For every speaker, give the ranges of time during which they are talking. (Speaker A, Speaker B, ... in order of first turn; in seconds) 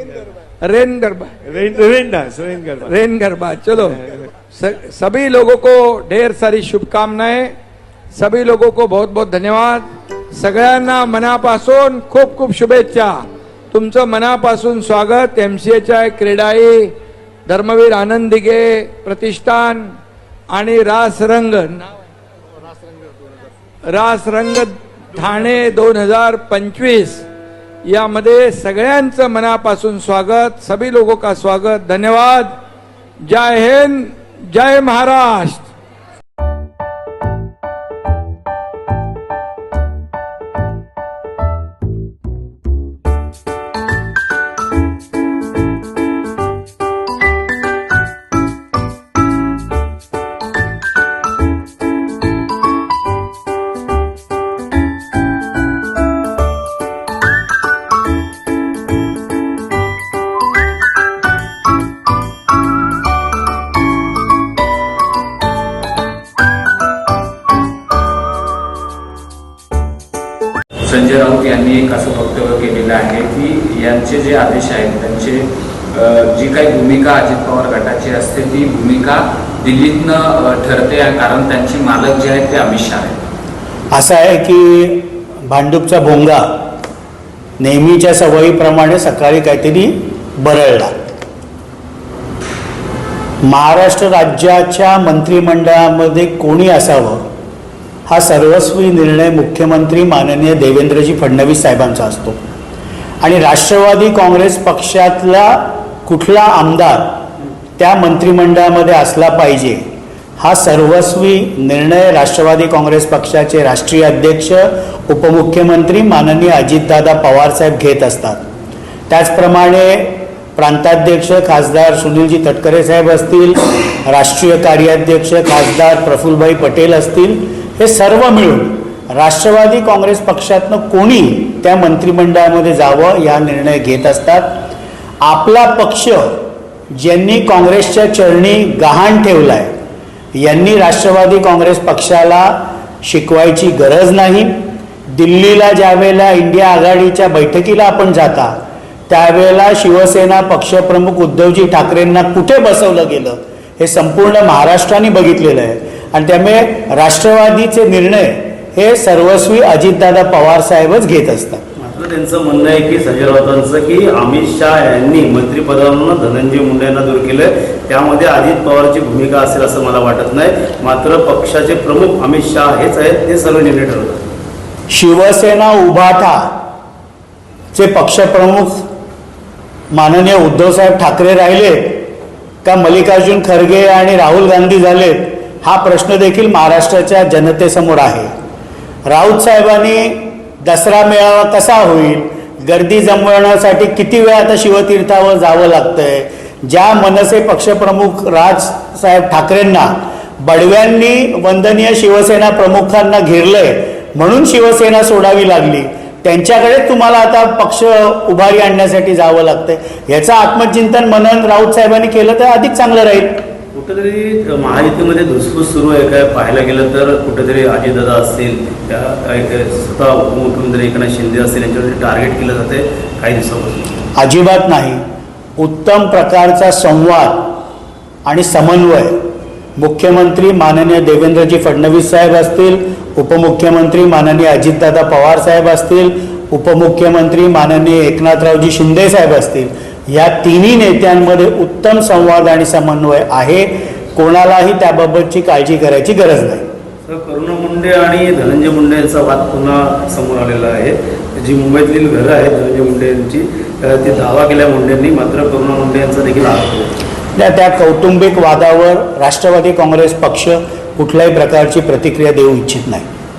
Speaker A: 0.6-1.3, 2.8-7.5, 8.2-13.1, 13.7-16.9, 17.5-19.9, 20.5-21.8, 23.9-27.2, 27.9-32.5, 33.3-35.7
Speaker B: 1.5-3.0, 3.9-4.3
Speaker C: 70.9-83.2
Speaker D: 83.9-86.6, 87.6-91.1, 93.5-97.2, 98.1-102.4, 103.2-109.9, 110.4-118.4, 119.1-134.7, 135.2-139.7, 140.3-148.6, 149.1-161.6, 174.9-176.5, 177.7-178.9, 179.9-188.3, 189.1-213.4, 224.2-225.0, 225.6-227.6, 228.3-229.2, 229.8-246.7, 257.4-263.1
Speaker E: 161.8-174.2, 213.8-223.8, 247.1-256.9